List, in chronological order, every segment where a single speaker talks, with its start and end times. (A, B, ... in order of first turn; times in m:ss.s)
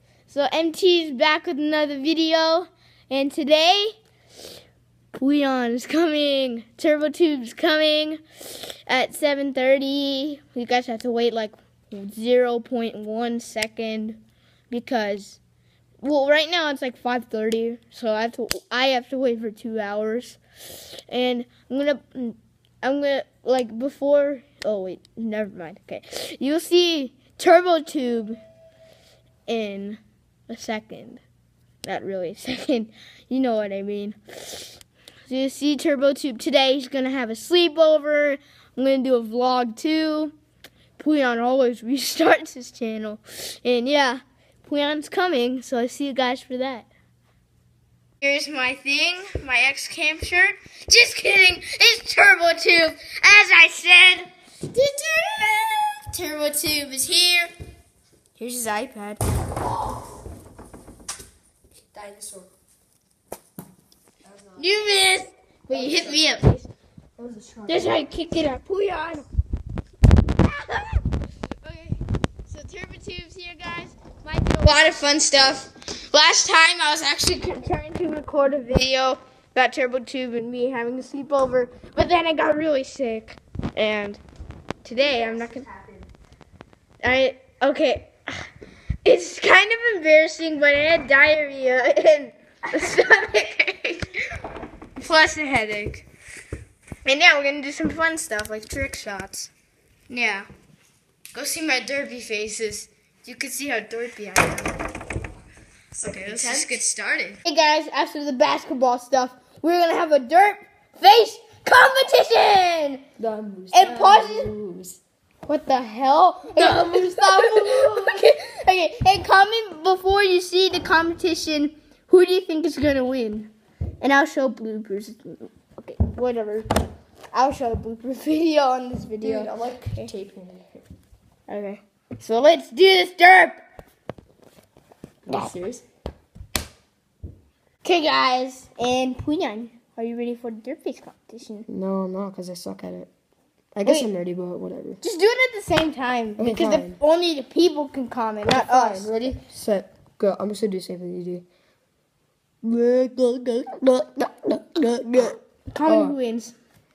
0:00.3-0:04.0 A
0:05.1-0:15.4 A
0:16.0-0:28.4 A
0:29.5-0:31.2 A
0:31.8-0:40.4 A
0:41.0-0:46.9 A
0:48.2-0:57.5 A
0:58.4-0:59.2 A
1:02.0-1:02.5 B
1:04.2-1:04.8 B
1:04.6-1:06.7 A
1:05.7-1:06.2 B
1:07.2-1:07.9 B
1:07.7-1:09.3 A
1:10.4-1:24.2 A
1:24.8-1:25.7 A
1:25.2-1:25.9 B
1:27.0-1:28.5 A
1:29.0-1:34.2 A
1:35.0-1:36.1 A
1:37.0-1:39.5 A
1:40.1-1:40.5 A
1:41.3-1:44.9 A
1:46.0-1:46.8 B
1:46.0-1:53.0 A
1:53.2-1:55.0 B
1:53.7-1:54.5 A
1:55.4-2:06.7 A
1:56.6-1:58.2 B
2:07.3-2:10.1 A
2:09.2-2:10.8 B
2:11.5-2:13.6 A
2:15.3-2:15.8 B
2:15.3-2:15.6 A
2:17.8-2:21.7 A
2:21.7-2:23.1 B
2:23.8-2:25.0 B
2:25.0-2:29.4 A
2:26.4-2:27.0 B
2:28.5-2:31.4 B
2:32.6-2:36.2 B
2:35.2-2:36.5 A